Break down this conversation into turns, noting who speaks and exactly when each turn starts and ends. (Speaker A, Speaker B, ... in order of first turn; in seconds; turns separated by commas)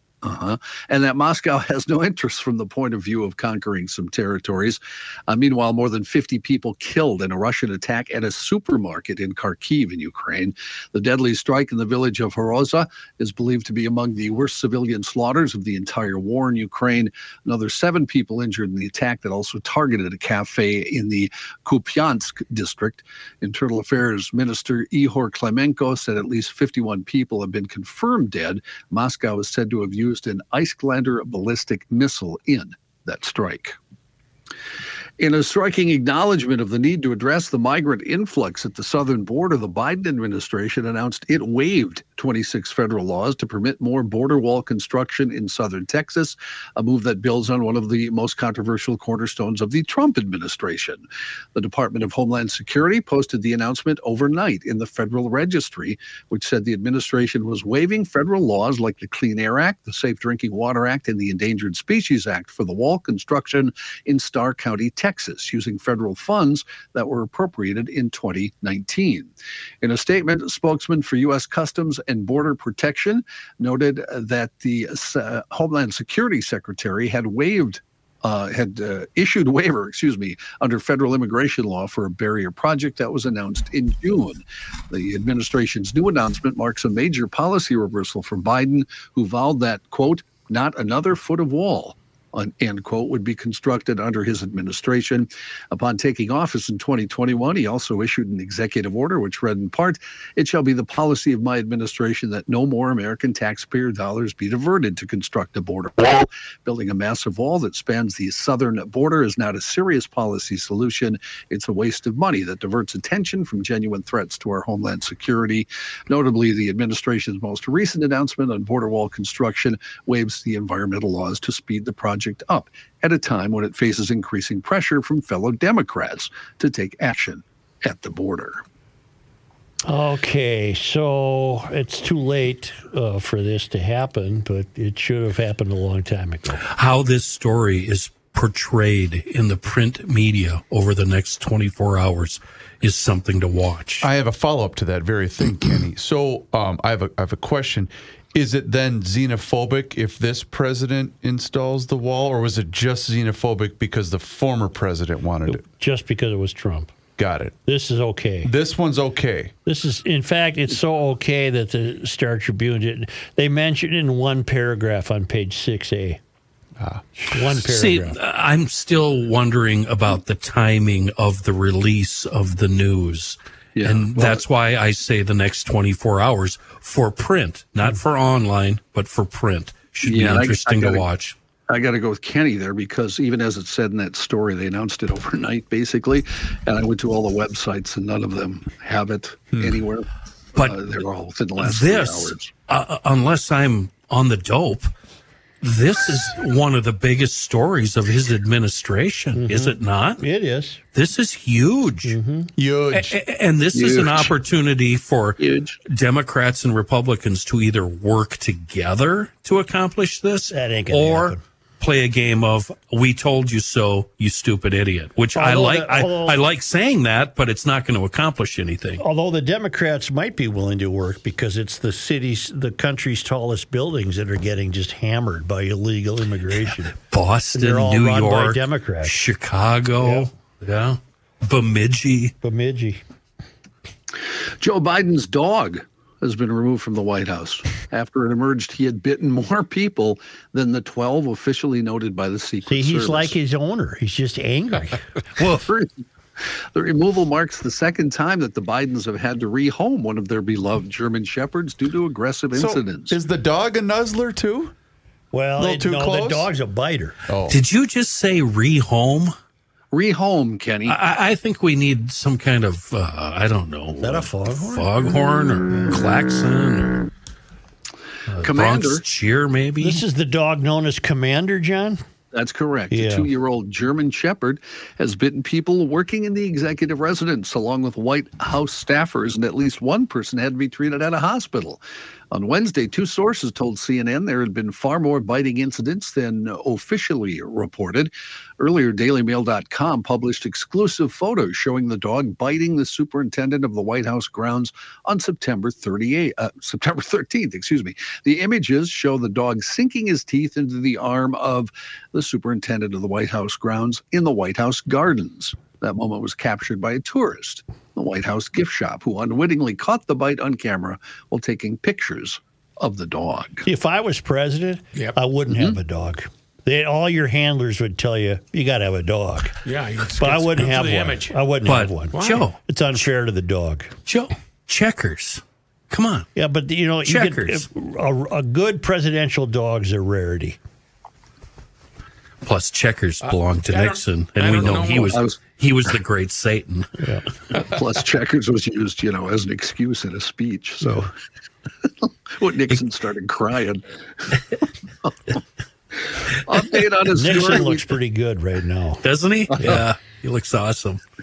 Speaker A: 0.2-33.8, Speaker A: 35.2-51.0, Speaker A: 51.5-69.3, Speaker A: 69.8-128.6, Speaker B: 129.8-136.6, Speaker C: 136.7-144.1, Speaker D: 144.0-155.6, Speaker B: 155.5-156.9, Speaker D: 157.2-157.6, Speaker B: 157.7-158.5, Speaker D: 158.4-159.5, Speaker B: 159.7-166.2, Speaker D: 166.8-167.0, Speaker B: 167.2-168.2, Speaker C: 167.5-181.3, Speaker A: 173.8-174.4, Speaker A: 180.0-181.0, Speaker A: 181.7-192.5, Speaker D: 189.6-189.8, Speaker C: 191.6-194.9, Speaker C: 195.6-200.2, Speaker B: 199.3-200.8, Speaker C: 200.9-202.1, Speaker B: 202.0-202.5, Speaker D: 202.6-203.2, Speaker C: 202.9-219.0, Speaker A: 203.7-204.3, Speaker A: 205.4-205.8, Speaker B: 210.5-211.4, Speaker B: 215.3-216.4, Speaker B: 219.0-226.9, Speaker C: 227.0-232.3, Speaker B: 227.5-229.1, Speaker B: 230.0-230.3, Speaker B: 232.4-233.0, Speaker A: 234.6-243.3, Speaker B: 242.7-245.0, Speaker A: 245.3-253.2, Speaker D: 252.5-254.7, Speaker B: 255.3-257.1, Speaker D: 255.6-256.5, Speaker D: 257.3-257.6, Speaker C: 257.5-259.3, Speaker A: 259.9-261.0, Speaker C: 260.9-267.1, Speaker B: 264.0-265.1, Speaker C: 268.3-270.0, Speaker A: 268.4-269.0, Speaker B: 269.8-272.0, Speaker A: 272.3-313.6, Speaker B: 272.9-273.3, Speaker B: 313.6-319.6, Speaker A: 315.5-315.8, Speaker E: 319.6-321.4, Speaker B: 320.2-323.9, Speaker C: 321.6-322.6, Speaker E: 322.1-322.5, Speaker C: 324.1-326.3, Speaker B: 326.3-330.6, Speaker C: 327.0-327.6, Speaker C: 332.4-337.0, Speaker E: 333.2-335.2, Speaker A: 335.1-335.4, Speaker B: 337.0-337.3, Speaker A: 337.6-341.1, Speaker B: 340.8-341.1, Speaker A: 342.0-344.4, Speaker A: 345.0-345.4, Speaker A: 346.3-347.9, Speaker B: 347.1-349.0, Speaker C: 349.0-351.0, Speaker A: 349.5-349.8